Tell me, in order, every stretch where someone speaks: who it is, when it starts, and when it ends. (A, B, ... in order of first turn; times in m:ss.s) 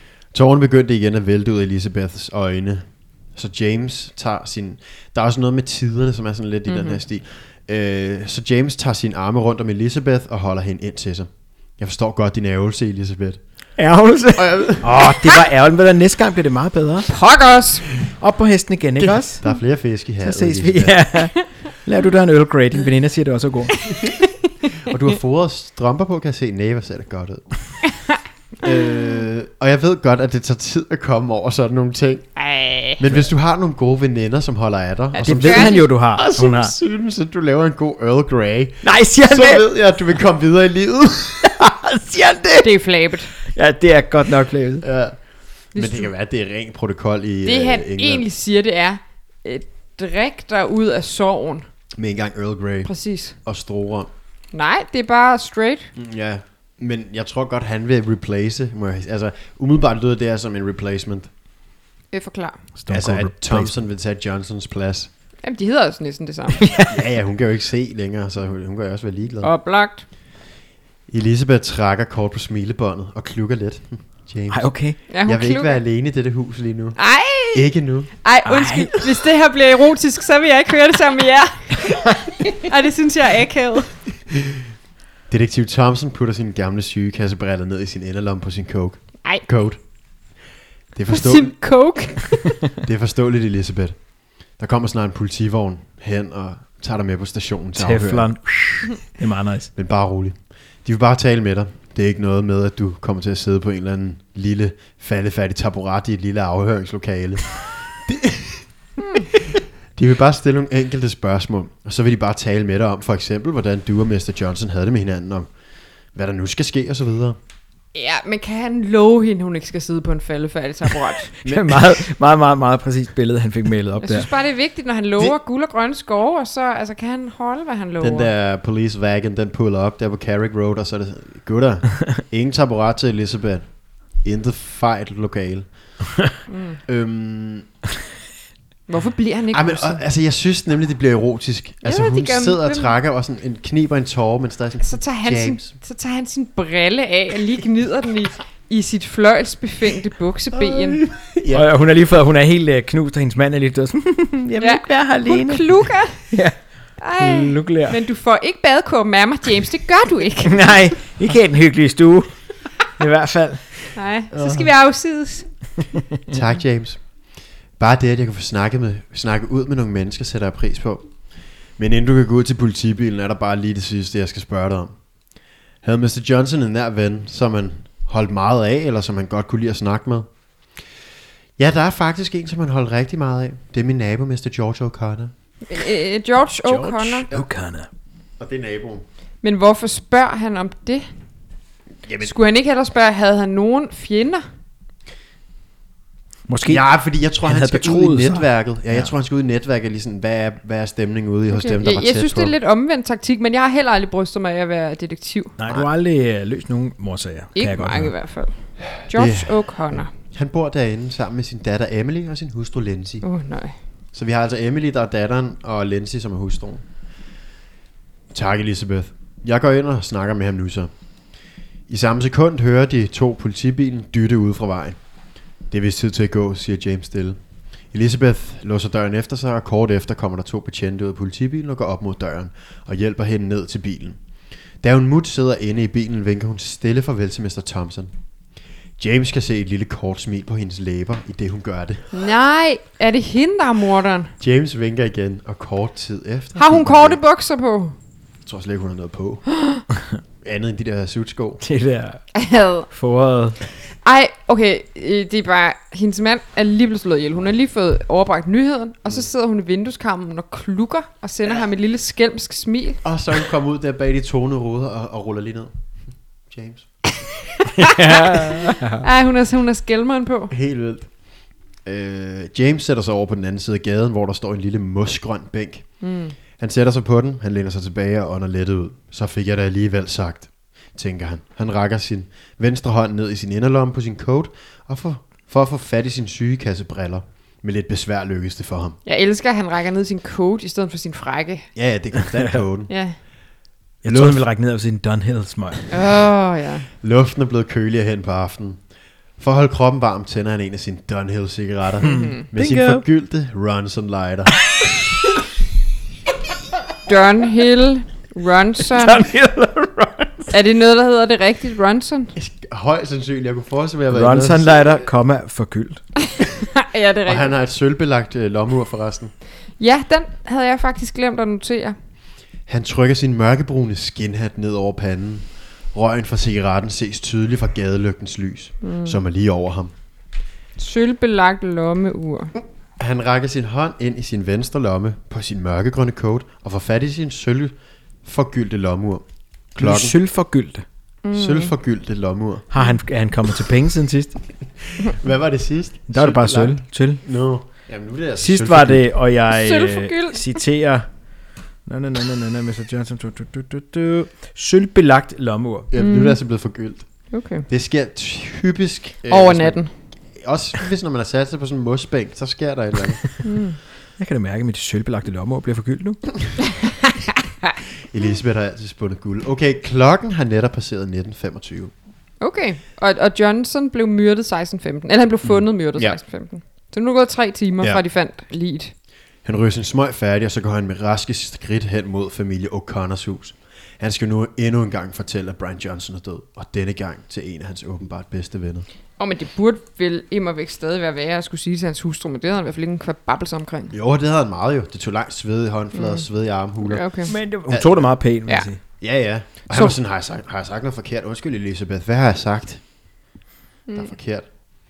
0:00.3-0:13.4 A
0:06.7-0:07.0 B
0:13.8-0:17.1 C
0:14.4-0:15.0 A
0:17.1-0:17.8 B
0:18.1-0:19.5 C
0:19.0-0:21.1 A
0:20.2-0:23.8 C
0:24.8-0:27.5 A
0:28.6-0:32.3 A
0:32.4-0:33.0 B
0:33.0-0:41.5 A
0:35.1-0:35.9 B
0:35.2-0:36.8 C
0:38.8-0:39.6 C
0:41.4-0:42.7 C
0:42.6-0:43.3 B
0:43.4-0:44.8 C
0:44.8-0:45.2 A
0:45.7-0:48.2 A
0:45.8-0:46.1 B
0:47.4-0:51.7 B
0:52.0-0:52.9 A
0:52.8-0:53.4 B
0:53.4-0:54.1 A
0:54.5-0:55.9 B
0:56.0-1:01.3 A
1:02.1-1:02.6 B
1:02.8-1:03.8 C
1:02.9-1:05.1 A
1:05.4-1:06.6 B
1:06.6-1:07.0 C
1:06.9-1:09.5 A
1:09.4-1:10.0 B
1:11.1-1:17.0 A
1:14.5-1:15.0 C
1:15.1-1:15.8 B
1:17.0-1:17.7 B
1:17.5-1:18.1 A
1:18.2-1:24.0 B
1:18.5-1:19.0 C
1:24.4-1:24.6 A
1:25.3-1:29.8 A
1:30.9-1:31.6 A
1:31.1-1:32.6 B
1:32.8-1:34.0 A
1:34.6-1:38.3 A
1:37.8-1:39.7 C
1:39.8-1:48.6 A
1:49.0-1:49.3 B
1:49.3-1:55.5 A
1:56.2-1:57.4 A
1:57.9-2:01.3 B
2:01.4-2:04.3 C
2:01.4-2:01.8 A
2:04.0-2:08.3 B
2:08.0-2:13.7 A
2:14.2-2:15.7 A
2:16.5-2:16.8 B
2:16.9-2:17.7 A
2:18.9-2:20.0 B
2:19.5-2:25.8 A
2:21.8-2:22.9 B
2:24.8-2:31.0 B
2:30.5-2:31.7 A
2:31.5-2:36.6 C
2:34.6-2:36.3 B
2:37.0-2:40.7 B
2:37.2-2:38.0 C
2:40.4-2:42.3 C
2:42.9-2:43.9 C
2:44.0-2:45.5 B
2:44.3-2:44.7 A
2:46.3-2:47.0 A
2:47.8-2:51.1 A
2:51.8-2:55.0 A
2:55.8-3:00.3 A
3:01.6-3:05.3 A
3:05.7-3:07.3 B
3:06.6-3:07.9 C
3:08.4-3:09.0 A
3:09.4-3:11.1 B
3:12.1-3:12.3 A
3:12.2-3:14.4 B
3:16.5-3:16.8 C
3:16.7-3:22.5 A
3:17.4-3:19.1 C
3:21.5-3:25.6 B
3:25.6-3:28.1 C
3:27.6-3:30.1 B
3:29.0-3:33.2 A
3:33.2-3:33.7 B
3:34.1-3:36.8 A
3:38.3-3:40.9 A
3:41.9-3:45.0 A
3:45.7-3:47.4 A
3:47.9-3:54.2 A
3:54.8-3:58.1 A
3:59.0-4:02.1 A
4:02.1-4:04.3 B
4:04.4-4:07.2 A
4:06.6-4:08.0 B
4:08.4-4:09.4 A
4:10.4-4:11.6 A
4:11.6-4:12.2 C
4:12.3-4:12.9 B
4:12.9-4:13.6 C
4:14.0-4:23.0 B
4:23.0-4:25.7 A
4:26.5-4:26.9 A
4:27.6-4:30.5 B
4:27.8-4:29.0 C
4:30.5-4:31.1 A
4:31.8-4:35.9 A
4:36.0-4:36.4 B
4:36.6-4:49.0 A
4:49.1-4:51.7 B
4:51.8-4:52.9 A
4:52.9-4:53.2 B
4:54.0-4:55.9 C
4:54.0-4:54.4 A
4:55.9-4:56.9 B
4:57.0-4:58.8 A
4:59.4-5:04.6 A
5:02.0-5:02.4 B
5:02.0-5:03.0 C
5:07.1-5:09.2 B
5:08.9-5:10.5 C
5:10.5-5:12.3 B
5:12.4-5:15.1 A
5:14.1-5:16.0 C
5:16.4-5:17.5 B
5:17.3-5:19.3 A
5:19.8-5:22.0 B
5:22.7-5:29.9 A
5:28.8-5:29.2 B
5:30.8-5:32.5 B
5:33.0-5:39.2 A
5:39.8-5:40.2 A
5:39.8-5:40.8 C
5:41.2-5:41.7 B
5:41.3-5:42.7 A
5:42.7-5:44.4 C
5:45.0-5:49.0 A
5:46.1-5:47.2 C
5:48.4-5:51.1 C
5:49.5-5:50.6 B
5:51.9-5:55.9 C
5:55.9-5:57.1 A
5:56.0-5:56.4 B
5:57.3-5:57.7 B
5:57.7-5:59.8 A
5:59.3-5:59.9 B
6:00.4-6:03.3 A
6:03.4-6:03.8 B
6:04.2-6:06.4 C
6:08.1-6:11.9 A
6:12.4-6:18.9 B
6:15.4-6:16.2 A
6:19.4-6:28.9 A
6:29.2-6:33.9 B
6:33.9-6:37.1 A
6:35.9-6:36.2 B
6:36.8-6:37.3 B
6:37.3-6:38.8 C
6:37.7-6:38.1 A
6:39.0-6:42.8 A
6:39.7-6:40.0 B
6:44.0-6:44.5 A